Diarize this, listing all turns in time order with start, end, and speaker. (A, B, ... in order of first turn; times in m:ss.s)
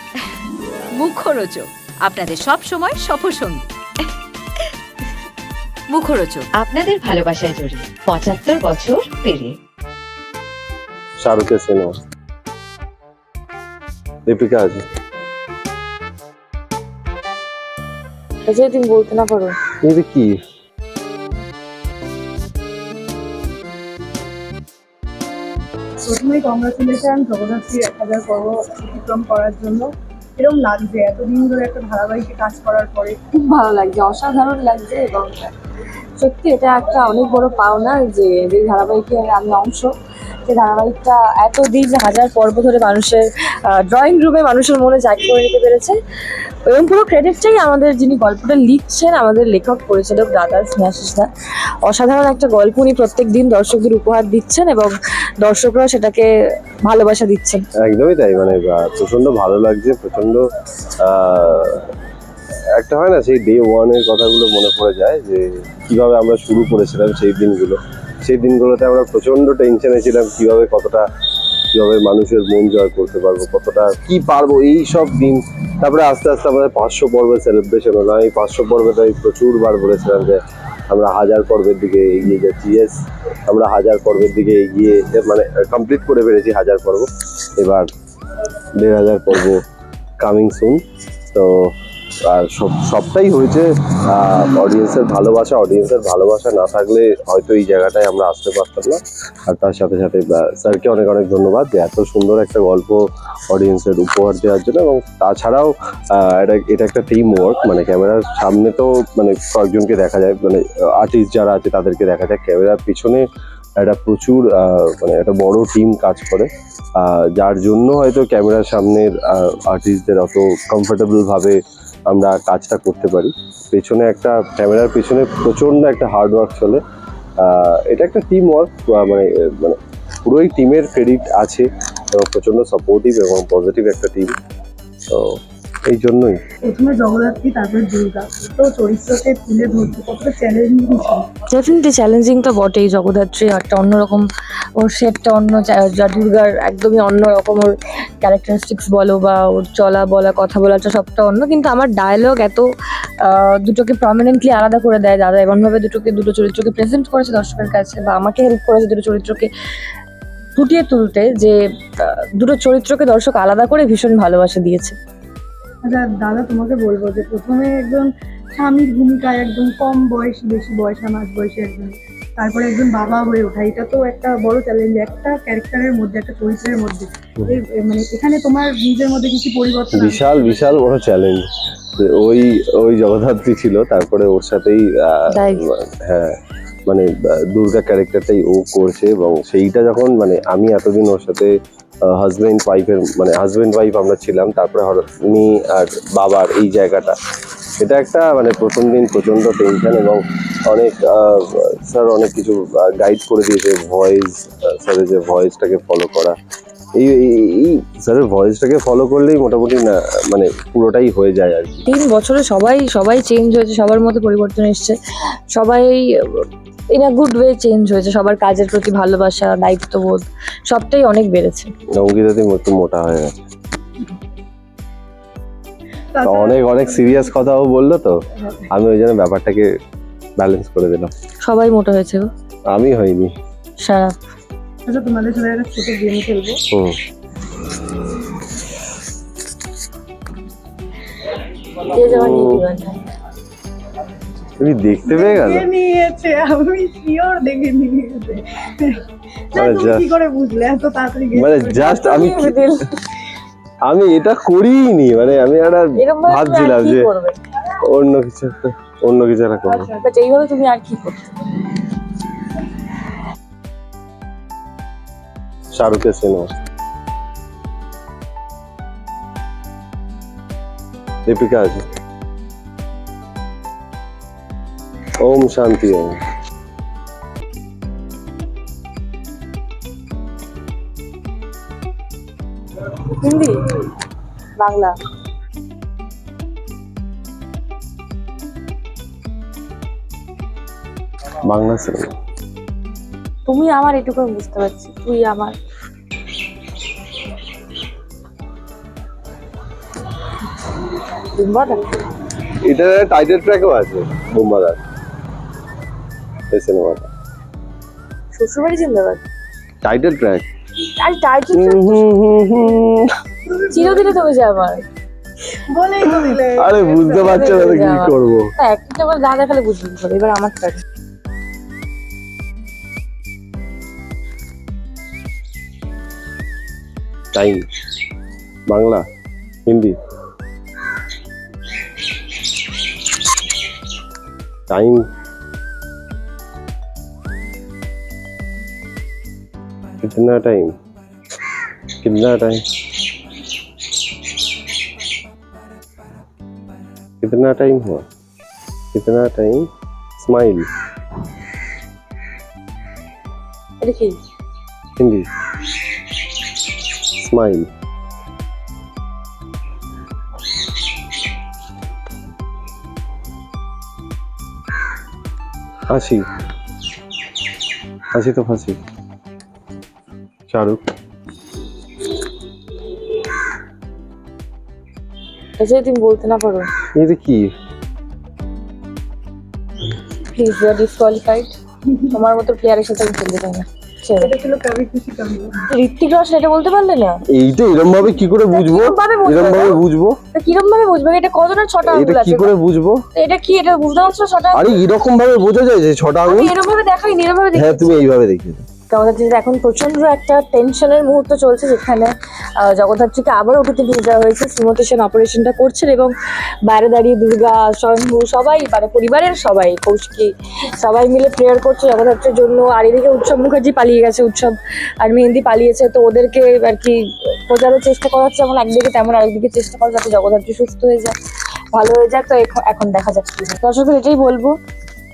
0:00.2-0:00.4 A
0:01.0-0:04.7 A
0:05.9-0:06.5 A
0:06.5-0:09.6 B
0:11.2-0:12.0 C
0:14.3-0:14.8 C
0:18.5-0:19.6 D
0:19.8-0:20.4 C
0:26.0-0:33.2 E
0:33.3-0:35.5 D
0:36.2-0:39.9 D
0:40.4-0:46.0 D
0:46.6-0:51.3 D
0:51.8-0:56.3 D
0:56.8-0:57.6 D
0:57.8-1:00.4 C
1:01.0-1:01.9 C
1:02.8-1:11.1 C
1:11.7-1:27.9 C
1:28.8-1:29.6 C
1:30.2-1:30.8 C
1:31.3-1:31.7 C
1:32.2-1:53.2 C
1:53.8-2:01.6 C
2:02.1-2:06.8 C
2:07.4-2:14.3 C
2:15.1-2:15.3 C
2:15.9-2:16.4 C
2:16.6-2:21.3 E
2:21.5-2:24.2 D
2:24.8-2:32.6 D
2:33.2-2:39.5 D
2:40.6-2:44.9 D
2:45.8-3:00.7 E
2:59.9-3:11.5 C
3:05.3-3:05.6 D
3:12.0-3:17.2 C
3:17.8-3:26.4 C
3:27.0-3:31.8 C
3:31.8-3:35.0 D
3:35.5-3:41.7 D
3:42.0-3:43.3 C
3:46.1-3:47.3 E
3:46.2-3:48.2 C
3:48.7-3:49.7 C
3:50.4-3:51.1 C
3:51.4-3:52.3 D
3:52.7-3:53.3 C
3:53.8-3:54.1 D
3:54.8-3:56.6 E
3:56.7-3:57.0 C
4:01.9-4:03.0 D
4:02.0-4:02.6 C
4:04.6-4:05.6 C
4:05.1-4:12.0 E
4:09.5-4:10.0 C
4:11.3-4:12.6 C
4:11.8-4:13.0 D
4:13.8-4:17.1 C
4:16.0-4:17.4 D
4:17.8-4:19.9 C
4:19.7-4:21.3 D
4:25.7-4:26.5 C
4:31.2-4:31.8 C
4:35.2-4:36.2 C
4:43.2-4:43.6 D
4:44.6-4:44.9 D
4:51.4-4:52.1 C
4:53.4-4:55.5 D
5:01.3-5:01.8 D
5:02.6-5:04.8 C
5:06.5-5:07.1 C
5:08.3-5:09.2 D
5:09.8-5:10.4 C
5:10.9-5:12.1 D
5:11.5-5:13.1 C
5:13.5-5:14.2 E
5:13.7-5:14.8 D
5:15.7-5:17.6 E
5:16.6-5:18.5 C
5:17.2-5:20.8 D
5:27.3-5:27.6 C
5:28.7-5:29.0 C
5:29.6-5:30.0 C
5:34.7-5:35.0 C
5:40.0-5:40.7 C
5:42.0-5:42.6 C
5:47.2-5:48.0 C
5:48.9-5:50.7 C
5:53.8-5:54.2 D
5:55.0-5:55.3 C
5:57.1-5:57.7 C
6:05.9-6:06.2 C
6:08.1-6:08.8 C
6:10.5-6:10.8 C
6:15.6-6:16.7 D
6:16.9-6:17.5 C
6:20.3-6:24.3 D
6:24.2-6:25.6 E
6:25.7-6:27.2 D
6:27.3-6:30.2 C
6:28.5-6:29.8 D
6:30.3-6:32.5 D
6:31.8-6:33.0 C
6:33.1-6:34.8 D
6:34.5-6:36.5 C
6:36.2-6:37.9 D
6:37.5-6:38.6 C
6:38.9-6:46.1 D
6:46.6-7:01.2 D
7:01.7-7:04.6 D